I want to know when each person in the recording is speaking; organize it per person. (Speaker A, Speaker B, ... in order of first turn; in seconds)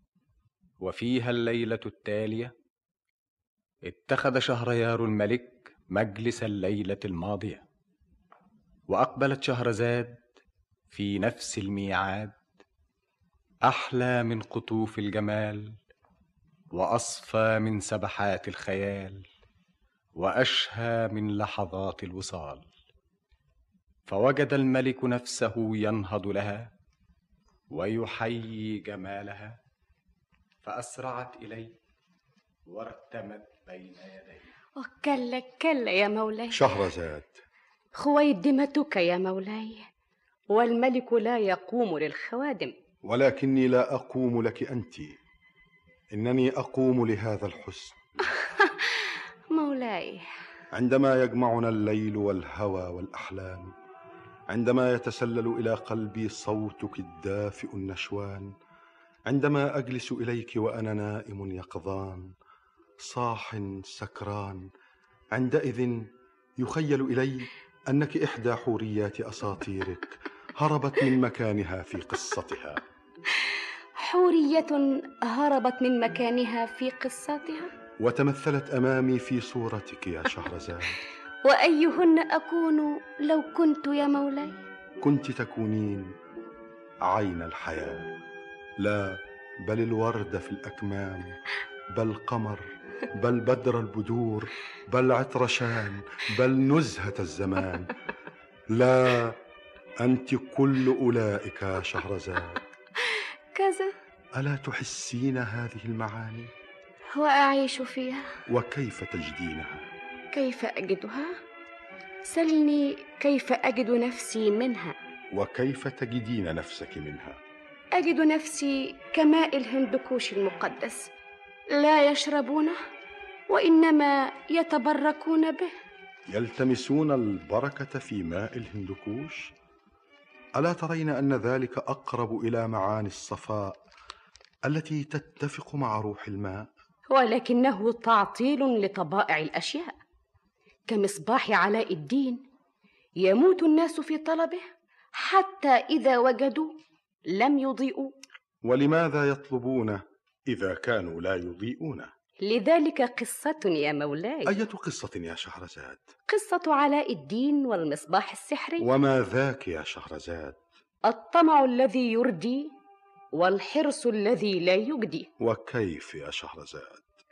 Speaker A: 0.8-2.5, 3.9-7.6, 8.9-10.2, 10.9-12.3, 13.6-15.7, 16.7-19.2, 20.2-22.7, 24.1-26.7, 27.7-29.5, 30.6-31.7, 32.7-34.5
Speaker B: 34.8-36.6, 37.9-39.8, 40.5-42.7, 48.4-48.7, 49.5-50.2, 74.0-77.7, 81.4-84.5, 103.5-103.9, 107.1-108.3, 110.3-111.3, 112.2-115.0, 117.9-121.1, 121.7-122.8, 123.5-125.7, 137.1-139.9, 140.9-142.4, 143.2-144.6, 145.2-146.7, 147.3-148.1, 152.4-154.5, 156.3-158.8, 161.1-162.7, 163.3-165.3
Speaker C: 36.5-37.4, 43.0-45.2, 46.1-48.0, 50.7-53.7, 54.5-58.5, 59.3-62.2, 63.0-64.6, 65.3-66.0, 66.6-72.8, 78.0-81.0, 85.0-86.1, 87.0-88.1, 88.8-91.3, 91.9-97.9, 98.7-99.3, 100.0-102.6, 104.4-106.5, 108.5-109.8, 115.3-117.4, 126.3-129.5, 130.6-133.8, 134.7-136.7, 148.6-152.1, 154.4-156.1, 158.8-160.6, 165.4-167.0